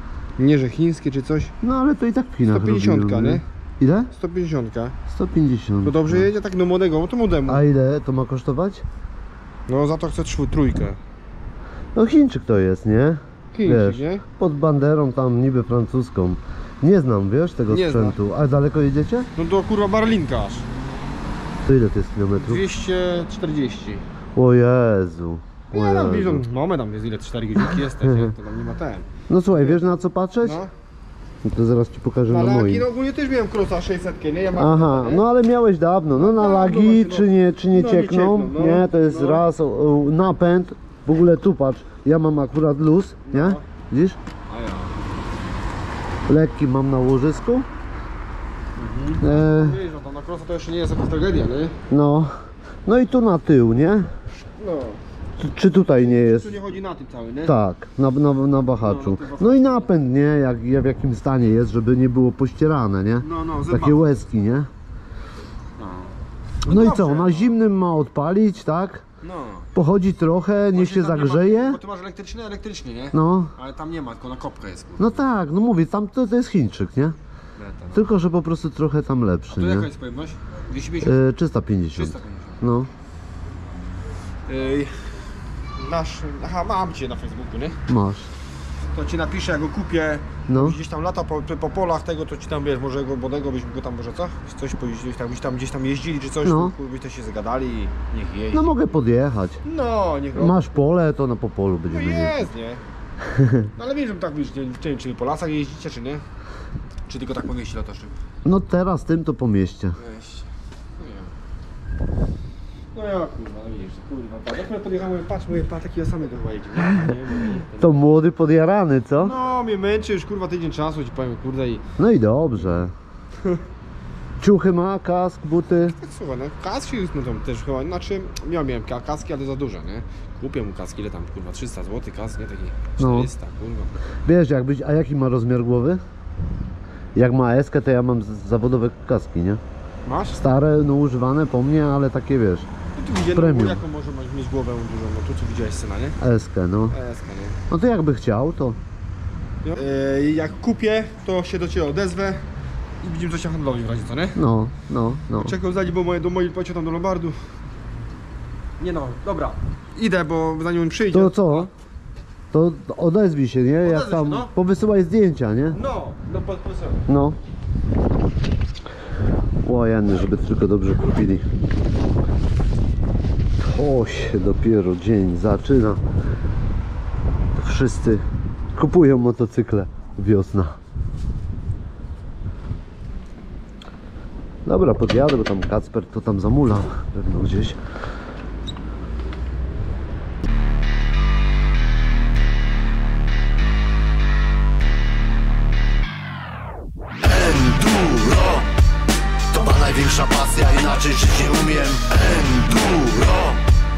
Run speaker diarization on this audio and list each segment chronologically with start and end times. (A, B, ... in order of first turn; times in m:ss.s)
0:00.4-0:01.5 A
0:01.6-0:04.1 B
0:02.5-0:03.4 A
0:04.1-0:04.9 A
0:05.1-0:06.3 B
0:05.8-0:07.6 A
0:07.5-0:08.8 B
0:09.7-0:11.0 A
0:11.9-0:19.3 B
0:13.5-0:14.2 A
0:17.7-0:18.2 A
0:19.3-0:20.7 A
0:21.6-0:22.6 B
0:22.4-0:24.0 A
0:24.4-0:26.4 B
0:25.7-0:29.8 A
0:28.0-0:28.3 B
0:29.3-0:30.6 B
0:30.4-0:30.7 A
0:31.4-0:32.8 B
0:32.3-0:35.2 A
0:34.5-0:44.2 B
0:36.1-0:39.4 A
0:43.3-0:43.6 A
0:44.5-0:45.0 A
0:46.3-0:47.7 B
0:48.8-0:51.8 A
0:49.2-0:49.8 B
0:51.9-0:52.3 B
0:52.8-0:54.1 B
0:54.6-0:55.0 A
0:55.4-0:56.5 B
0:55.8-0:57.6 A
0:57.4-1:04.7 B
0:58.8-0:59.9 A
1:03.2-1:04.0 A
1:05.8-1:06.1 A
1:06.6-1:07.5 A
1:06.6-1:09.0 B
1:09.2-1:09.7 A
1:09.7-1:11.8 B
1:10.7-1:15.2 A
1:13.1-1:13.5 B
1:15.0-1:17.2 B
1:17.6-1:18.0 A
1:17.9-1:19.9 B
1:19.5-1:21.2 A
1:21.0-1:22.9 B
1:21.9-1:22.6 A
1:24.5-1:25.1 A
1:25.8-1:27.8 A
1:27.9-1:28.3 B
1:28.9-1:38.7 A
1:30.5-1:30.8 B
1:36.4-1:36.7 B
1:38.5-1:39.6 B
1:39.6-1:40.6 A
1:40.3-1:42.4 B
1:41.9-1:42.8 A
1:43.3-1:43.7 B
1:43.7-1:46.2 A
1:47.1-1:48.1 A
1:48.4-1:50.0 B
1:50.0-1:51.3 A
1:52.9-1:58.0 A
1:57.8-1:59.4 B
1:59.2-2:01.8 A
2:02.0-2:02.9 B
2:04.4-2:06.0 B
2:06.0-2:13.9 A
2:13.0-2:13.3 B
2:14.2-2:16.0 B
2:17.1-2:19.6 B
2:20.0-2:20.4 A
2:20.3-2:22.7 B
2:22.9-2:26.2 A
2:23.3-2:23.8 B
2:26.2-2:27.0 B
2:26.9-2:27.6 A
2:27.7-2:28.8 B
2:29.6-2:32.4 A
2:33.0-2:34.4 A
2:34.3-2:35.6 B
2:35.3-2:37.4 A
2:38.8-2:41.7 A
2:41.1-2:41.7 B
2:42.5-2:45.8 B
2:43.8-2:44.5 A
2:45.7-2:47.0 A
2:47.1-2:47.4 B
2:49.6-2:51.4 B
2:53.6-2:56.0 B
2:57.5-2:58.2 B
2:58.7-3:00.8 B
3:04.6-3:07.8 B
3:17.3-3:18.7 B
3:19.5-3:23.6 B